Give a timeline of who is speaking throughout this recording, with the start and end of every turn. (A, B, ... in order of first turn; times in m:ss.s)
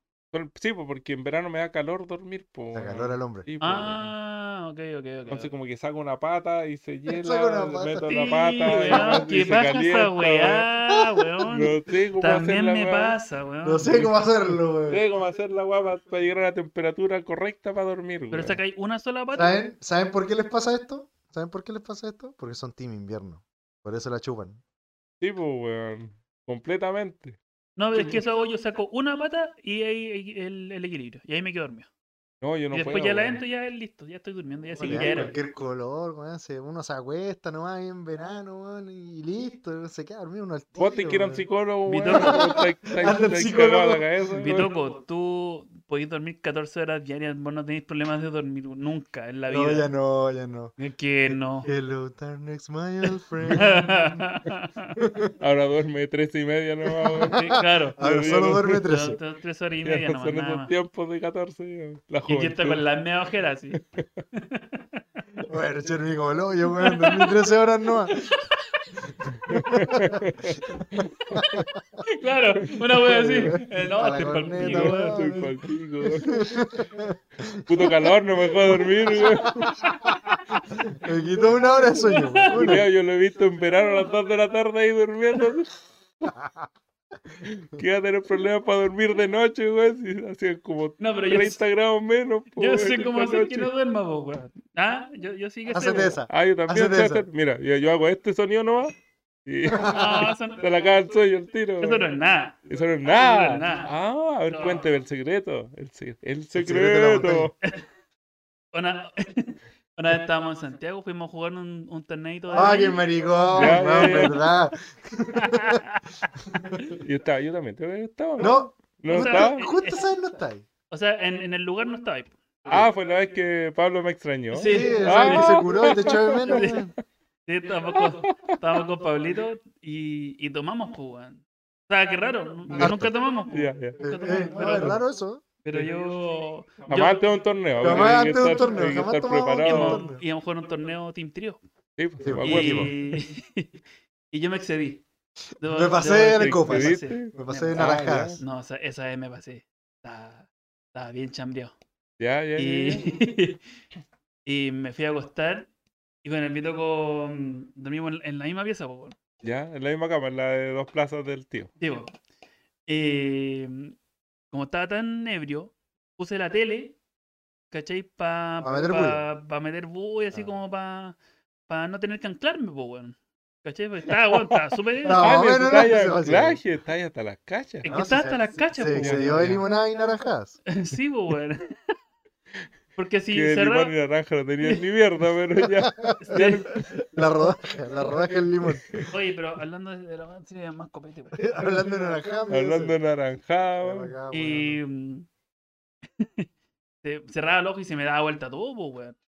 0:00.3-0:04.1 A
0:02.7-0:03.4 B
0:03.6-0:05.5 C
0:05.3-0:10.7 A
0:07.1-0:09.2 B
0:08.0-0:14.2 C
0:11.5-0:13.2 A
0:13.6-0:15.0 B
0:14.9-0:18.6 A
0:18.3-0:19.6 C
0:19.3-0:24.6 B
0:25.2-0:27.4 A
0:27.8-0:31.9 C
0:27.9-0:28.2 A
0:32.4-0:33.4 A
0:32.7-0:35.4 C
0:34.8-0:41.4 B
0:34.8-0:35.3 A
0:40.8-0:44.7 A
0:41.9-0:42.4 C
0:42.1-0:44.0 B
0:44.4-0:49.9 C
0:49.5-0:50.7 B
0:50.8-0:51.7 C
0:51.3-0:54.1 B
0:53.5-0:55.0 C
0:55.0-0:55.3 B
0:55.4-0:58.9 A
0:56.9-0:59.2 B
0:57.3-1:00.7 C
0:59.8-1:02.8 A
1:02.3-1:03.8 C
1:04.3-1:05.2 C
1:05.5-1:08.3 B
1:06.8-1:07.5 C
1:08.1-1:09.0 C
1:09.5-1:10.7 A
1:09.5-1:10.2 B
1:10.8-1:11.8 B
1:11.3-1:15.5 C
1:13.0-1:15.4 B
1:13.2-1:13.5 A
1:14.6-1:16.3 A
1:16.2-1:17.8 B
1:17.7-1:19.7 A
1:19.1-1:19.7 B
1:19.4-1:20.4 C
1:20.9-1:22.9 B
1:22.0-1:22.8 C
1:22.5-1:26.3 A
1:26.3-1:26.7 B
1:27.4-1:33.7 A
1:31.0-1:31.6 C
1:32.6-1:36.2 C
1:35.7-1:37.3 B
1:36.3-1:42.1 A
1:39.7-1:40.3 B
1:39.8-1:40.6 C
1:41.8-1:43.9 C
1:42.7-1:47.5 A
1:44.5-1:44.9 C
1:46.5-1:47.5 B
1:48.7-1:54.4 C
1:52.5-1:55.8 B
1:53.6-1:54.5 A
1:55.4-1:56.1 C
1:56.5-1:56.8 B
1:57.0-1:59.6 A
1:58.4-2:00.6 B
1:59.1-2:00.1 C
2:00.9-2:02.4 C
2:02.7-2:06.7 A
2:04.5-2:06.9 C
2:04.6-2:06.9 B
2:07.4-2:15.0 C
2:12.7-2:14.0 A
2:12.7-2:13.1 B
2:14.0-2:15.4 B
2:15.6-2:17.3 C
2:16.9-2:20.0 A
2:17.8-2:18.6 C
2:17.8-2:20.2 B
2:19.6-2:21.6 C
2:22.0-2:22.9 A
2:22.2-2:22.9 B
2:22.4-2:23.7 C
2:24.3-2:25.0 C
2:25.6-2:31.7 C
2:25.6-2:28.4 B
2:26.4-2:28.4 A
2:32.2-2:33.1 A
2:32.6-2:33.6 C
2:34.4-2:35.7 C
2:36.2-2:39.2 C
2:39.4-2:41.7 A
2:41.8-2:42.1 C
2:42.9-2:44.0 C
2:44.5-2:47.0 C
2:47.7-2:55.3 C
2:48.6-2:49.2 B
2:55.0-2:56.6 B
2:55.1-2:57.9 A
2:57.8-2:59.6 C
2:57.9-3:00.6 B
2:59.0-2:59.6 A
3:00.7-3:02.0 C
3:03.0-3:03.9 C
3:03.3-3:06.9 A
3:05.8-3:09.0 B
3:06.2-3:06.7 C
3:08.7-3:09.1 A
3:09.1-3:11.8 C
3:11.4-3:13.0 B
3:12.5-3:14.1 A
3:13.8-3:14.8 B
3:14.3-3:15.3 C
3:16.2-3:16.5 C
3:17.0-3:19.2 C